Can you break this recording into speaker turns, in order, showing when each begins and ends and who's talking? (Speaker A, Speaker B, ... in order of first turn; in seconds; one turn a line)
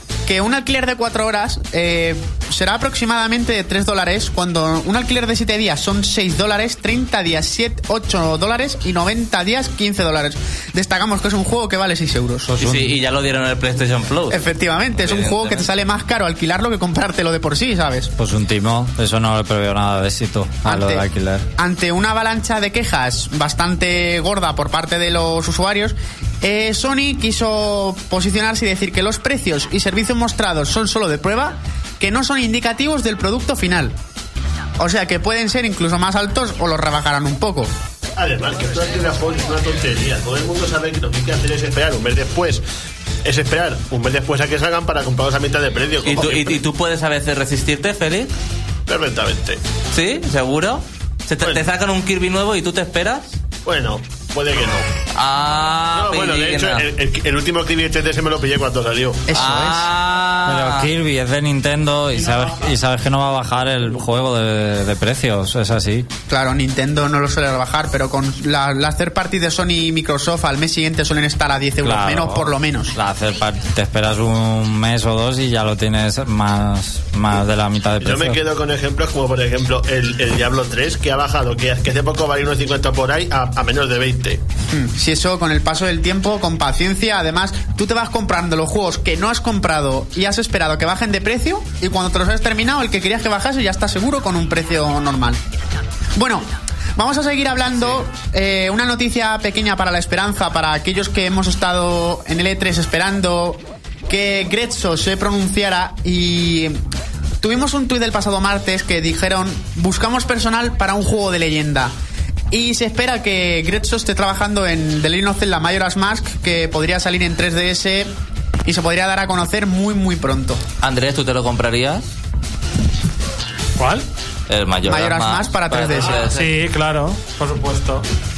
Speaker A: 0.2-12.5
Speaker B: 12.5-12.9
Speaker C: 12.6-15.7
Speaker A: 14.3-18.1
Speaker B: 18.2-21.5
Speaker A: 20.6-21.0
Speaker A: 21.6-33.9
Speaker A: 34.8-37.7
Speaker D: 38.2-42.6
Speaker D: 43.2-46.6
Speaker C: 46.0-48.3
Speaker D: 48.9-49.6
Speaker C: 49.9-53.4
Speaker D: 53.6-54.9
Speaker C: 55.1-56.9
Speaker D: 55.9-59.4
Speaker A: 59.3-59.9
Speaker C: 59.3-60.9
Speaker B: 60.5-66.1
Speaker A: 66.3-72.9
Speaker B: 71.8-78.4
Speaker D: 78.0-84.4
Speaker A: 84.7-95.4
Speaker A: 96.2-106.8
Speaker A: 107.4-111.9
Speaker A: 112.5-118.1
Speaker A: 118.6-120.6
Speaker C: 120.8-122.0
Speaker E: 123.8-124.0
Speaker C: 124.5-126.5
Speaker A: 124.8-126.2
Speaker E: 126.1-128.0